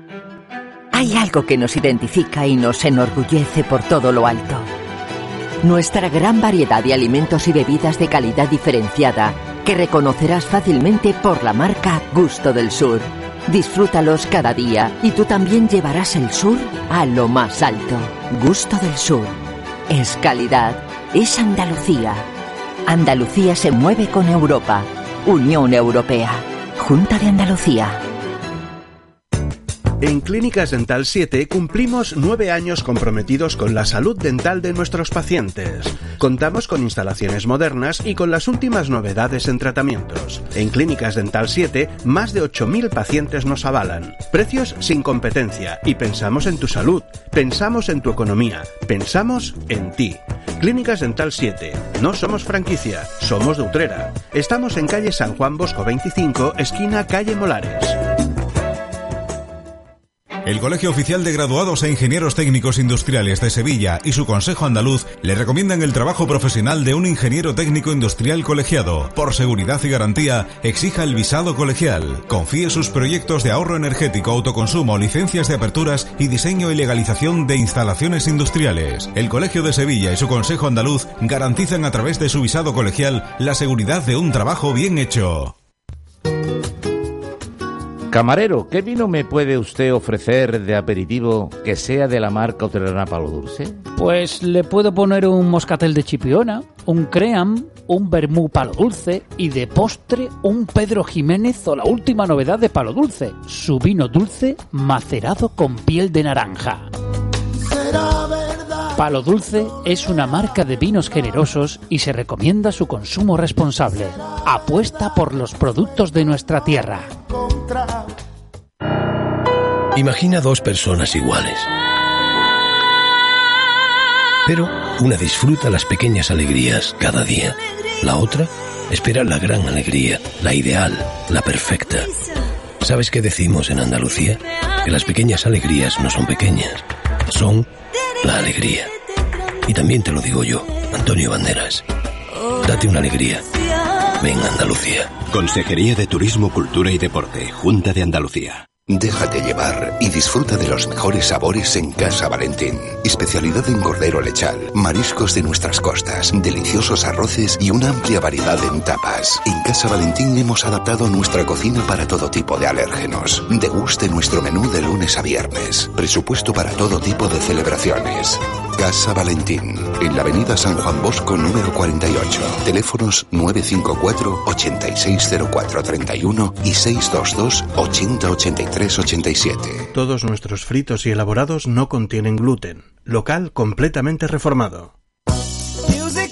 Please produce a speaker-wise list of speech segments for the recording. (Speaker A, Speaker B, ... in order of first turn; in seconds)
Speaker A: 0.9-4.7, 5.6-22.3, 22.9-28.0
Speaker B: 30.0-58.0, 179.9-184.9
Speaker C: 60.4-85.5
Speaker D: 88.1-93.8
Speaker E: 93.9-106.9, 108.9-117.1
Speaker F: 119.9-121.7, 124.5-132.1, 132.8-137.7, 138.2-138.9, 139.6-141.8, 142.6-143.6, 144.2-145.3
Speaker G: 145.3-148.6
Speaker H: 148.9-179.9